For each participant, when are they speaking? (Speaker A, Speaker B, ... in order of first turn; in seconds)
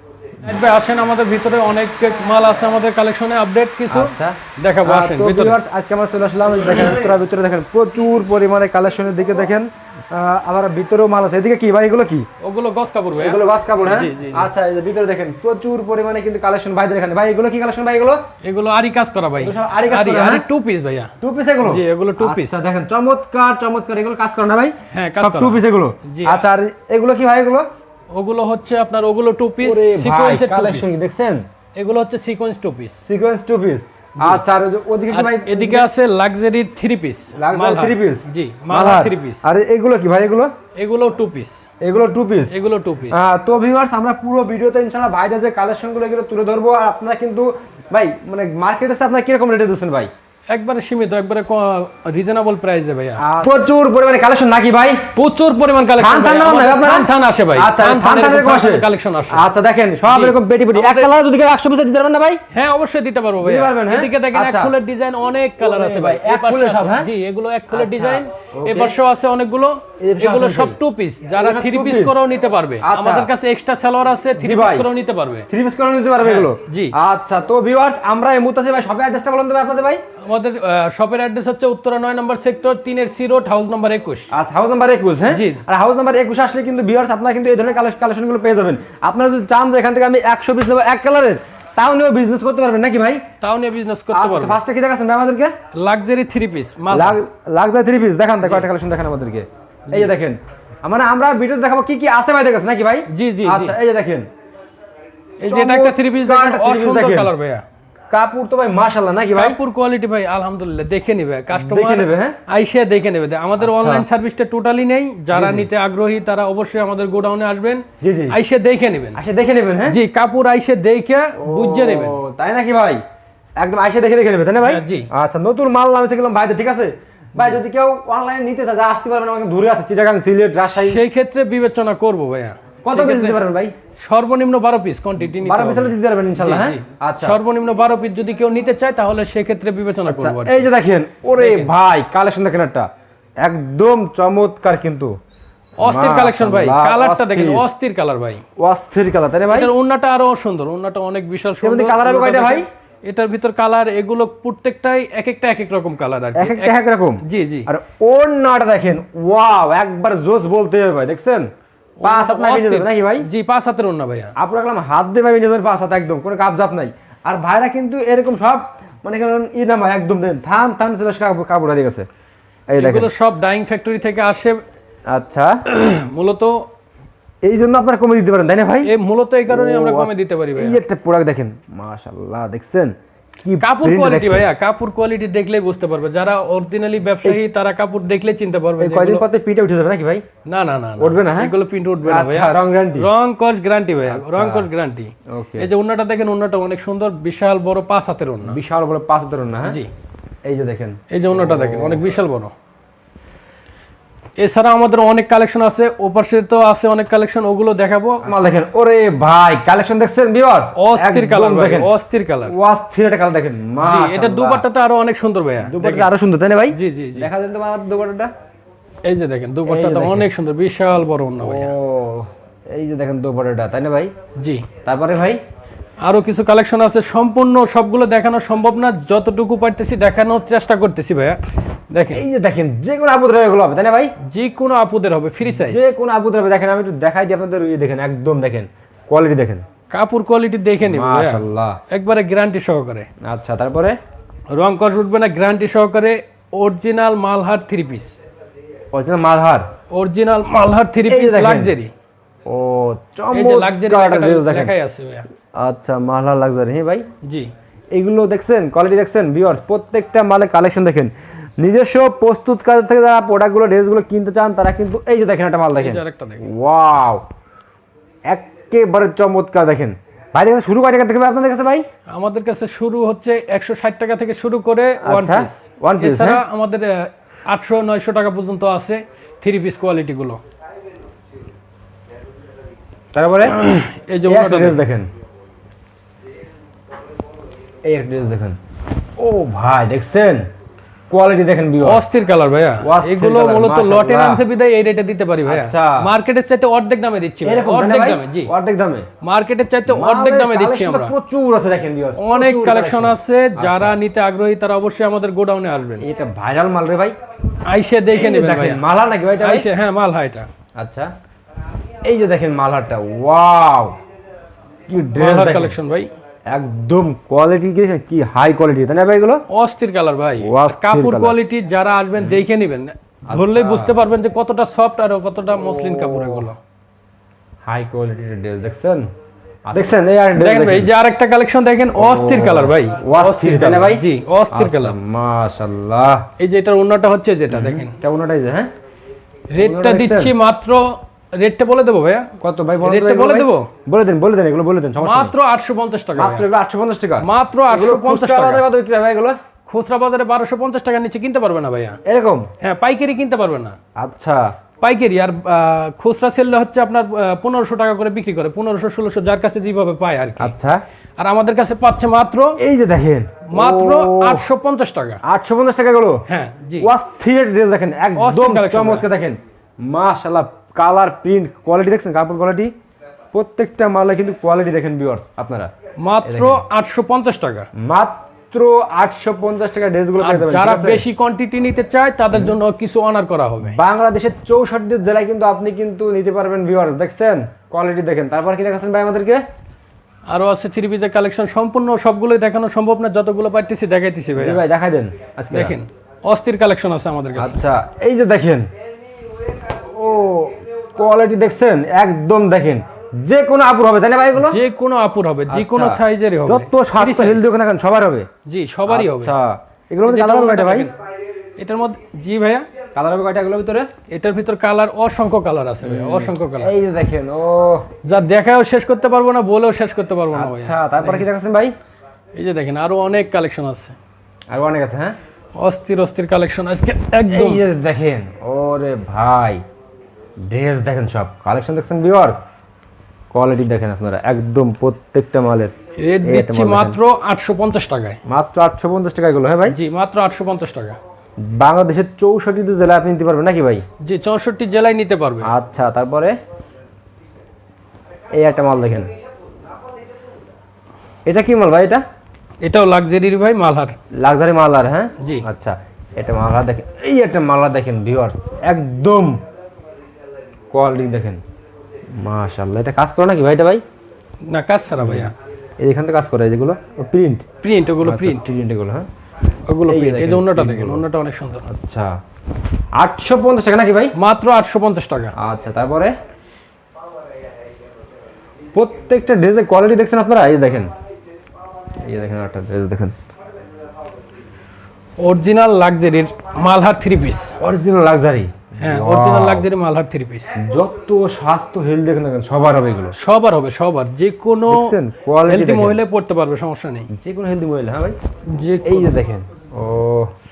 Speaker A: 0.4-5.6, 12.4-14.5, 18.4-21.1, 21.6-22.6, 24.9-26.4, 28.1-30.9, 31.8-33.0, 35.1-39.4, 40.8-41.6, 42.5-43.2, 50.5-53.2, 55.2-59.5, 60.0-61.1, 62.5-75.5, 76.2-77.0, 80.2-84.3, 85.3-85.7, 93.4-94.6, 95.7-97.2, 103.1-103.8, 105.4-107.6, 109.3-119.2, 119.9-122.2, 124.6-125.1, 130.6-133.4, 134.0-140.7, 141.4-141.7, 145.8-148.4, 149.5-157.7, 162.0-164.3, 172.8-174.6, 175.7-176.7, 178.8-180.8, 183.6-189.3, 190.5-198.6, 199.7-199.9, 201.1-202.5, 204.4-208.3, 210.8-212.6, 213.8-216.1, 216.7-217.3, 219.1-221.7, 224.4-224.7, 226.0-232.2, 234.2-235.9, 239.9-243.1, 244.5-248.1, 249.9-251.9, 253.3-255.3, 257.2-257.5, 265.8-266.5, 272.1-280.4, 283.5-284.8, 291.8-298.5, 299.2-301.1, 302.2-306.1, 307.6-308.8, 309.4-310.5, 315.2-316.1, 319.5-326.6, 330.4-334.9, 336.4-338.0, 339.5-342.3, 342.8-343.7, 345.0-346.5, 347.2-348.6, 349.7-352.0, 352.6-353.8, 354.8-360.5, 361.2-362.6, 363.5-365.2, 366.3-366.9, 368.2-369.1, 376.0-377.7, 380.2-383.8, 390.3-394.6, 395.5-397.6, 404.4-407.5, 408.5-409.3, 410.0-410.9, 411.6-412.7, 414.1-416.8, 418.0-421.3, 422.4-424.0, 425.6-427.6, 436.0-438.2, 439.7-441.0, 444.0-445.5, 452.6-454.0, 455.2-455.4, 464.5-465.3, 467.6-468.5, 469.7-471.7, 474.1-475.3, 485.2-487.6, 488.8-490.6, 493.2-494.9, 495.5-497.1, 498.5-499.2
Speaker B: 3.9-12.3, 13.2-18.2, 19.4-20.4, 21.2-27.7, 29.6-31.4, 33.1-35.9, 37.4-40.5, 41.8-42.5, 43.1-50.1, 53.2-55.1, 56.0-62.4, 63.4-64.7, 65.6-67.1, 67.7-69.0, 70.0-70.8, 71.4-72.2, 72.8-73.3, 74.4-74.9, 75.5-80.0, 84.3-93.2, 94.1-95.5, 96.9-104.3, 105.4-107.3, 108.1-109.6, 111.5-112.4, 113.6-114.1, 115.3-115.7, 118.0-118.4, 119.2-120.0, 121.4-123.0, 123.6-131.0, 132.8-133.8, 135.2-137.4, 140.1-142.9, 143.4-145.1, 145.8-147.7, 148.6-149.7, 151.6-152.7, 156.3-161.5, 162.0-163.3, 164.4-172.1, 172.7-173.1, 175.1-175.6, 177.4-178.9, 179.5-184.5, 188.8-190.2, 191.0-193.1, 194.1-194.7, 195.3-195.7, 198.5-199.8, 200.4-202.1, 208.2-211.9, 212.5-214.7, 215.6-218.3, 219.7-220.3, 221.4-224.1, 224.9-225.4, 232.1-234.1, 235.4-239.7, 240.8-241.8, 243.2-244.0, 248.9-249.7, 251.1-251.8, 252.5-254.7, 255.5-257.1, 257.9-267.2, 268.3-271.9, 275.0-276.4, 283.1-283.6, 284.2-285.1, 287.9-288.6, 289.2-290.5, 291.1-292.1, 292.8-294.4, 295.5-296.1, 297.4-299.1, 299.9-304.0, 306.0-307.1, 308.1-309.7, 310.8-311.1, 312.0-314.0, 314.9-315.8, 316.5-319.4, 320.4-321.4, 323.3-324.0, 326.0-326.4, 327.6-329.1, 329.7-330.9, 331.9-336.2, 337.5-338.7, 339.6-340.3, 342.4-345.3, 346.2-349.4, 352.1-352.5, 354.0-354.5, 360.4-360.8, 362.6-364.5, 365.2-366.2, 366.8-372.7, 373.3-375.7, 376.2-376.6, 377.8-381.1, 382.3-382.6, 383.7-389.4, 394.4-395.8, 397.4-398.7, 399.7-404.6, 405.5-408.3, 408.9-410.9, 412.9-413.9, 415.8-417.9, 420.3-421.7, 424.5-425.2, 427.3-429.6, 430.4-432.4, 433.3-437.0, 438.3-439.8, 441.4-443.9, 445.4-446.4, 448.4-449.1, 451.3-452.0, 454.1-459.4, 460.7-461.4, 462.2-463.8, 465.0-467.4, 468.0-469.1, 469.9-471.1, 471.7-472.1, 473.0-474.1, 475.4-476.1, 478.7-480.9, 482.1-483.1, 487.6-489.7, 490.6-493.2, 494.7-496.0, 497.1-498.2, 498.9-500.3